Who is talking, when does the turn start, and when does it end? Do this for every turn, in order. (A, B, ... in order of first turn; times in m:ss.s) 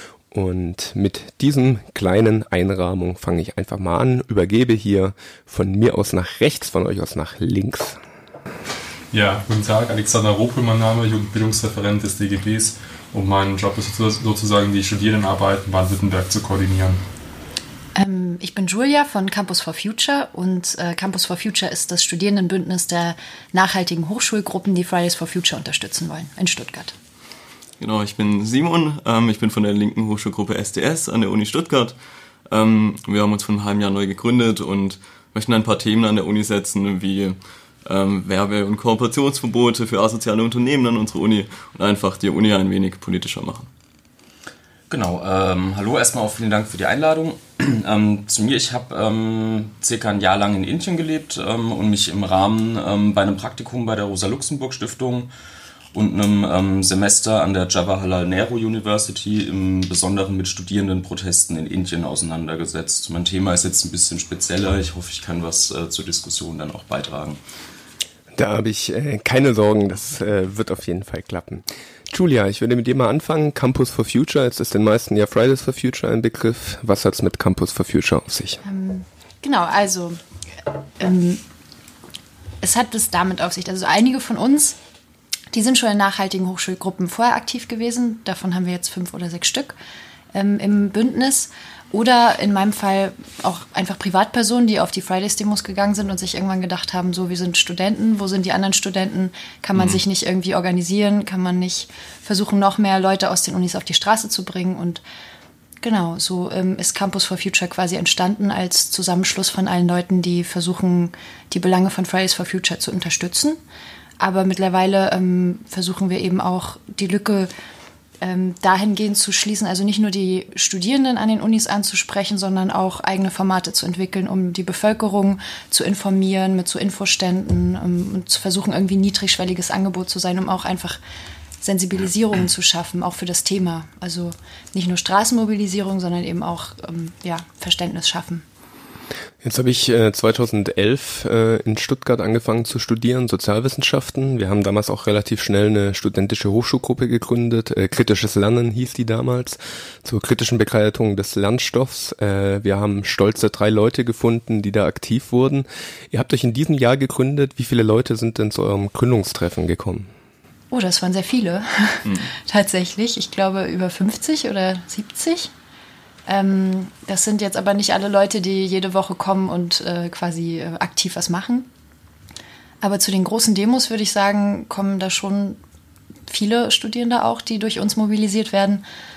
0:00.3-0:08.0 A
0:09.1-0:17.0 B
0:18.0-0:27.0 C
0:27.8-0:32.0 D
0:32.5-0:43.7 D
0:44.9-0:55.3 E
0:55.9-1:07.4 E
1:08.4-1:18.6 A
1:18.6-1:20.2 C
1:21.0-1:21.4 C
1:22.6-1:24.8 C
1:25.5-1:29.8 C
1:30.3-1:45.0 C
1:45.8-1:53.6 C
1:54.2-1:57.5 C
1:58.2-2:11.0 C
2:11.6-2:18.4 C
2:19.4-2:40.1 A
2:40.7-2:45.5 C
2:46.3-2:51.7 C
2:52.8-2:55.6 C
2:56.3-2:58.8 C